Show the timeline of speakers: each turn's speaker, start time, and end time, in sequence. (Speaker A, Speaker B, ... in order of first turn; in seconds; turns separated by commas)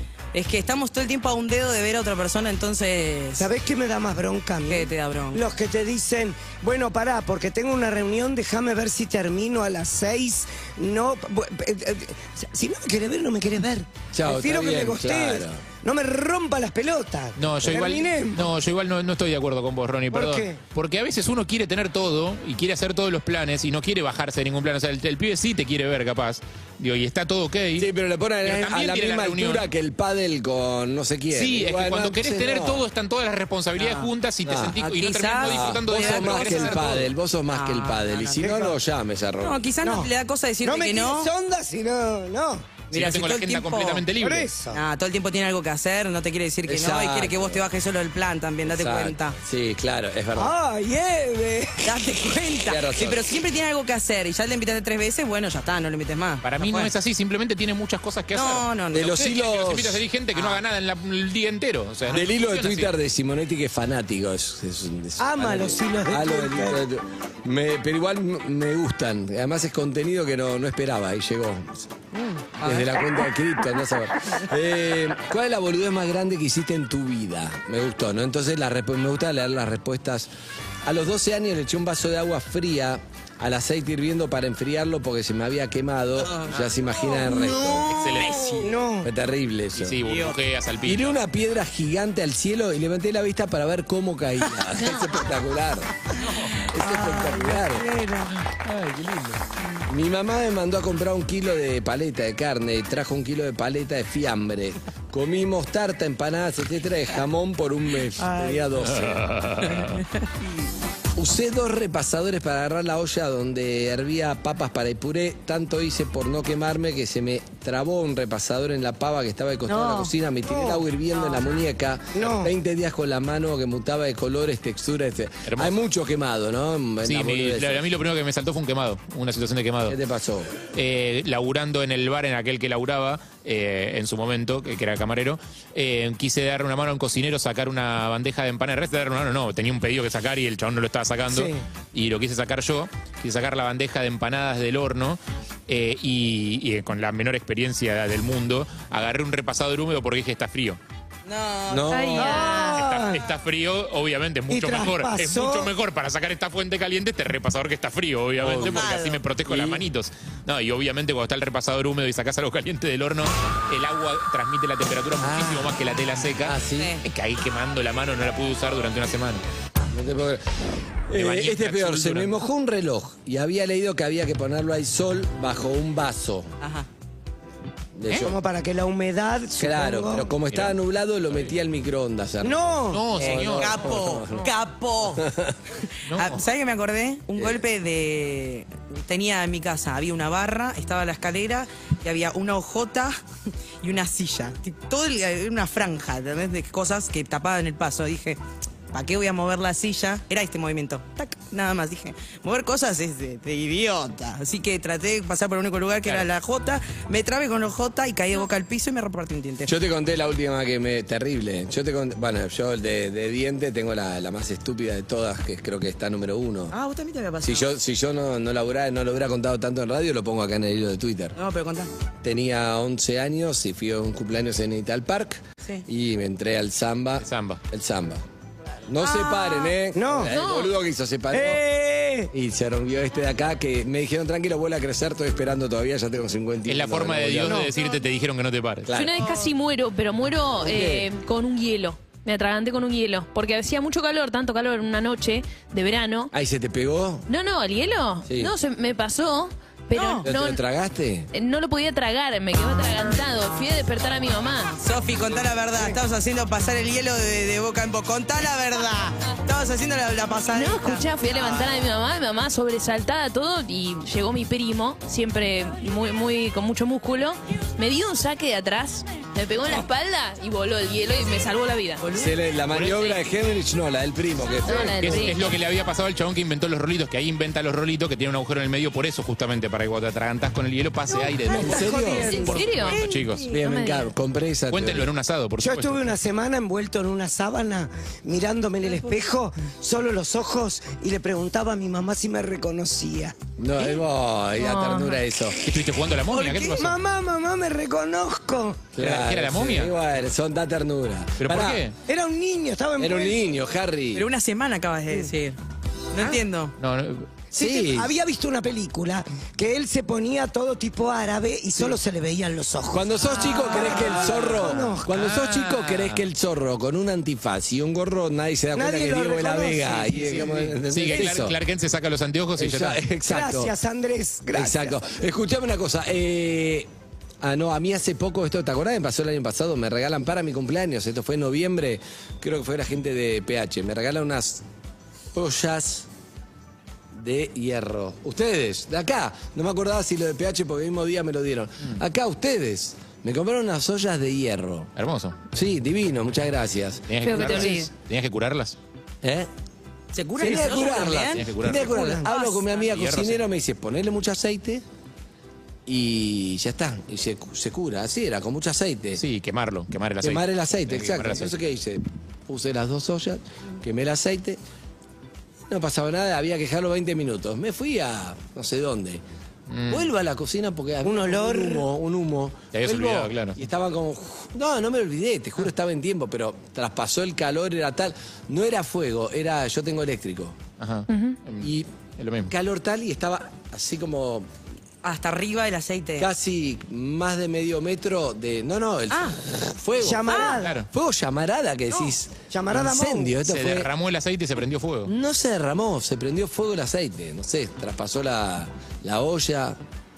Speaker A: 0.3-3.5, Speaker B: 3.4-18.5, Speaker A: 4.7-5.4, Speaker C: 14.1-15.6, Speaker D: 17.4-27.9, Speaker B: 20.1-20.6, Speaker C: 27.8-32.8, Speaker D: 28.4-29.6, Speaker D: 31.3-37.1, Speaker A: 33.8-34.1, Speaker C: 34.4-34.8, Speaker A: 34.8-38.5, Speaker C: 35.4-39.7, Speaker B: 38.4-38.7, Speaker A: 39.4-41.3, Speaker B: 39.8-42.8, Speaker A: 42.9-44.1, Speaker D: 42.9-44.5, Speaker B: 44.2-44.8, Speaker A: 44.7-49.4, Speaker C: 46.6-47.6, Speaker C: 48.6-50.5, Speaker B: 50.3-51.9, Speaker A: 51.8-56.9, Speaker C: 52.7-53.3, Speaker D: 56.4-62.9, Speaker A: 58.3-59.1, Speaker C: 58.9-60.0, Speaker A: 60.3-60.6, Speaker C: 62.1-72.0, Speaker B: 65.2-66.8, Speaker A: 72.1-73.1, Speaker C: 72.6-80.3, Speaker C: 80.8-87.9, Speaker A: 86.2-86.5, Speaker A: 87.2-88.7, Speaker D: 87.9-88.7, Speaker B: 88.6-89.1, Speaker C: 89.0-90.0, Speaker D: 89.8-91.2, Speaker A: 90.0-90.4, Speaker C: 90.8-95.9, Speaker E: 94.8-95.1, Speaker A: 96.3-98.3, Speaker C: 96.7-97.9, Speaker D: 98.6-99.4, Speaker C: 99.9-109.5, Speaker A: 108.2-108.6, Speaker D: 108.8-110.0, Speaker A: 109.6-110.3, Speaker C: 111.2-127.8, Speaker A: 119.7-120.1, Speaker B: 120.5-120.8, Speaker B: 122.1-122.5, Speaker D: 125.5-125.8, Speaker D: 127.0-130.0, Speaker C: 129.9-130.5, Speaker D: 130.7-150.8, Speaker B: 141.3-141.6, Speaker A: 151.2-152.6, Speaker C: 151.7-152.5, Speaker E: 151.9-152.8, Speaker B: 152.2-153.2, Speaker D: 152.7-169.4, Speaker B: 154.5-155.7, Speaker C: 158.4-158.9, Speaker A: 158.6-159.2, Speaker C: 159.4-159.8, Speaker C: 165.2-165.8, Speaker C: 166.4-167.0, Speaker A: 166.7-167.0, Speaker C: 169.9-170.4, Speaker C: 171.1-176.5, Speaker D: 171.1-172.3, Speaker A: 176.6-176.9, Speaker C: 177.9-178.4, Speaker B: 178.1-180.3, Speaker C: 179.6-184.5, Speaker D: 180.5-180.8, Speaker B: 182.4-183.1, Speaker D: 182.9-184.0, Speaker A: 183.2-185.2, Speaker C: 185.2-185.6, Speaker D: 186.1-186.4, Speaker A: 186.1-193.2, Speaker C: 187.3-187.6, Speaker A: 193.8-198.4, Speaker A: 198.9-209.7, Speaker C: 209.7-216.8, Speaker A: 216.7-217.7, Speaker C: 217.4-221.4, Speaker A: 221.3-221.9, Speaker C: 222.2-228.2, Speaker D: 227.2-227.6, Speaker C: 228.9-231.6, Speaker A: 229.0-229.7, Speaker B: 229.9-230.3, Speaker E: 230.3-230.7, Speaker B: 231.3-232.3, Speaker C: 232.3-237.7, Speaker D: 236.7-238.9, Speaker C: 238.8-239.2, Speaker E: 238.9-246.3, Speaker A: 239.2-239.5, Speaker C: 240.6-241.1, Speaker C: 246.3-247.2, Speaker E: 247.3-250.6, Speaker C: 248.2-248.5, Speaker A: 249.9-250.3, Speaker C: 250.2-251.3, Speaker E: 251.3-254.8, Speaker A: 254.8-261.8, Speaker E: 260.5-272.0, Speaker A: 272.0-272.4, Speaker C: 272.1-275.4, Speaker D: 272.7-273.2, Speaker E: 274.6-275.4, Speaker D: 275.0-283.4, Speaker C: 281.5-282.5, Speaker A: 281.5-283.6, Speaker B: 281.6-282.5, Speaker E: 282.2-284.1, Speaker C: 283.5-285.1, Speaker D: 284.7-286.1, Speaker B: 285.6-293.3, Speaker C: 293.6-295.6, Speaker E: 294.6-295.2, Speaker D: 295.6-297.0, Speaker A: 296.3-296.8, Speaker B: 296.8-298.9, Speaker C: 298.9-301.8, Speaker D: 299.0-299.9, Speaker D: 301.4-301.9, Speaker B: 302.1-303.4, Speaker C: 303.0-304.3, Speaker A: 304.1-305.6, Speaker A: 306.1-306.7, Speaker D: 306.8-307.3, Speaker C: 307.5-308.1, Speaker B: 307.5-315.1, Speaker C: 312.9-321.6, Speaker A: 313.4-314.7, Speaker D: 315.1-316.2, Speaker B: 318.7-321.3, Speaker D: 320.9-323.0, Speaker C: 322.6-323.7, Speaker B: 323.2-325.0, Speaker C: 324.5-326.9, Speaker C: 327.4-334.6, Speaker C: 335.3-336.1, Speaker C: 337.1-344.9, Speaker D: 344.9-345.4, Speaker C: 345.5-347.8, Speaker D: 347.1-348.8, Speaker E: 347.2-347.9, Speaker C: 349.2-349.5, Speaker A: 350.1-352.8, Speaker C: 350.4-354.8, Speaker D: 351.3-352.2, Speaker B: 351.7-352.3, Speaker D: 352.9-353.4, Speaker C: 355.9-359.2, Speaker D: 359.2-361.5, Speaker C: 360.2-364.6, Speaker C: 365.7-369.2, Speaker D: 369.7-370.1, Speaker C: 369.9-380.6, Speaker B: 371.0-371.9, Speaker D: 372.7-373.6, Speaker D: 380.8-382.5, Speaker E: 381.1-381.4, Speaker C: 381.6-381.9, Speaker C: 382.5-384.5, Speaker A: 385.0-386.3, Speaker C: 386.2-393.9, Speaker A: 389.1-389.4, Speaker B: 390.0-390.7, Speaker A: 390.3-390.5, Speaker D: 390.4-390.9, Speaker B: 392.5-393.4, Speaker D: 393.4-395.1, Speaker C: 395.1-399.8